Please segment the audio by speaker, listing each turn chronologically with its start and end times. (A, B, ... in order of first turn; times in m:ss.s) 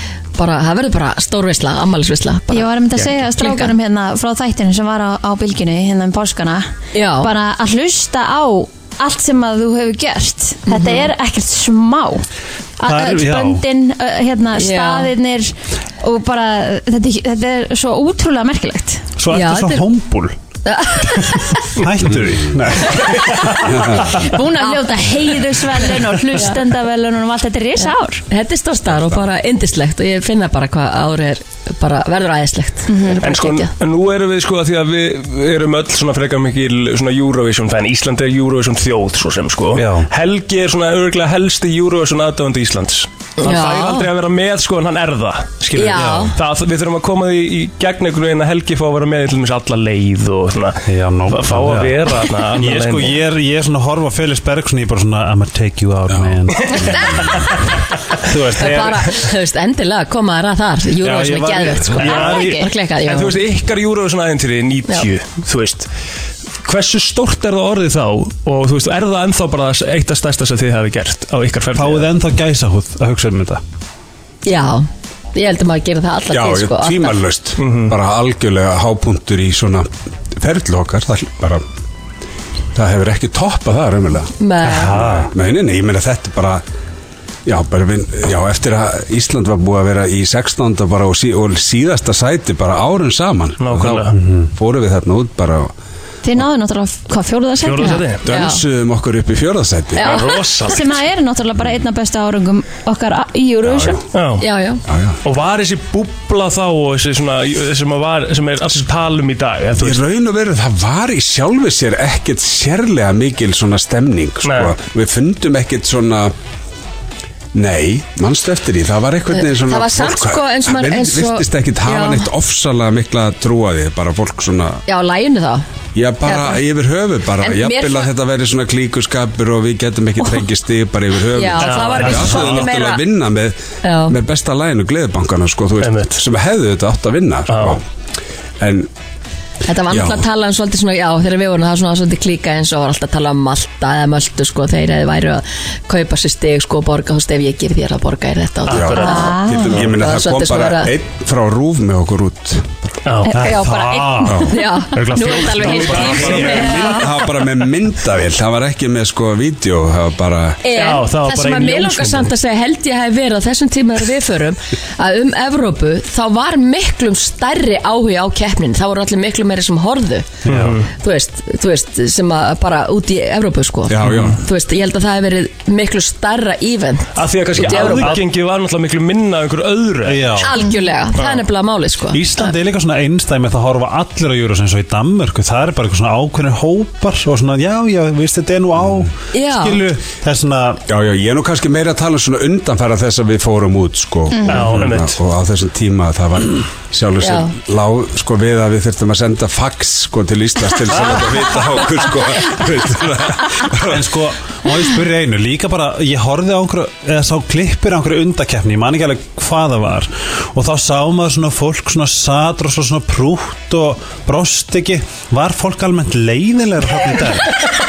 0:00.4-0:03.7 A
0:02.5-0:06.7 B
0:06.9-0:07.3 A
0:07.2-0:12.2 B
0:10.7-0:11.1 A
0:12.8-0:19.0 B
0:12.8-0:13.6 C
0:14.6-0:15.1 A
0:19.2-0:20.4 C
0:19.3-0:19.8 A
0:20.7-0:21.7 A
0:21.8-0:23.0 C
0:23.8-0:24.1 D
0:24.1-0:28.2 B
0:24.4-0:26.6 A
0:27.8-0:33.7 A
0:32.9-0:33.2 B
0:33.2-0:53.2 E
0:39.7-0:40.1 C
0:43.4-0:44.1 A
0:45.7-0:46.4 A
0:46.0-0:46.3 C
0:50.9-0:56.9 C
0:56.1-0:56.4 D
0:56.8-0:57.4 A
0:58.3-0:59.1 C
0:58.6-1:03.4 A
1:01.0-1:02.7 C
1:02.2-1:02.7 B
1:03.0-1:05.9 E
1:06.6-1:12.1 E
1:11.7-1:13.6 C
1:14.4-1:17.2 A
1:16.3-1:21.6 D
1:17.6-1:18.0 E
1:22.7-1:24.3 D
1:24.4-1:25.0 A
1:24.6-1:25.3 C
1:25.0-1:26.6 D
1:27.5-1:35.7 D
1:33.6-1:34.1 E
1:34.1-1:34.5 C
1:36.2-1:38.0 B
1:37.6-1:38.3 E
1:37.8-1:38.6 A
1:38.3-1:40.1 D
1:39.9-1:40.3 A
1:40.0-1:40.9 E
1:40.0-1:44.0 B
1:43.6-1:44.0 D
1:44.1-1:44.4 E
1:44.4-1:44.8 A
1:44.9-1:45.2 D
1:45.2-1:50.0 E
1:49.8-1:56.3 D
1:54.4-1:54.7 E
1:57.5-2:04.8 D
1:59.3-2:02.3 A
2:04.9-2:05.6 A
2:06.0-2:17.8 D
2:06.2-2:06.6 A
2:07.4-2:08.1 A
2:11.3-2:13.0 A
2:11.6-2:12.6 E
2:13.8-2:14.2 A
2:15.8-2:16.2 E
2:17.5-2:17.8 E
2:18.6-2:18.9 D
2:19.7-2:30.9 A
2:19.9-2:20.2 D
2:28.7-2:29.4 E
2:28.7-2:32.7 D
2:29.0-2:29.7 B
2:33.1-2:33.4 E
2:33.3-2:37.3 A
2:33.3-2:34.5 C
2:35.0-2:36.6 E
2:35.2-2:37.1 C
2:36.7-2:40.6 D
2:40.6-2:50.4 A
2:40.8-2:42.3 E
2:50.5-2:50.8 C
2:50.5-2:50.9 E
2:50.9-2:58.2 A
2:53.9-2:54.4 D
2:57.2-3:00.4 E
2:57.6-2:58.2 C
3:00.1-3:00.6 C
3:00.4-3:02.5 A
3:02.1-3:10.8 C
3:09.3-3:09.8 A
3:10.9-3:24.0 D
3:14.5-3:15.2 E
3:17.2-3:17.6 A
3:23.9-3:37.5 C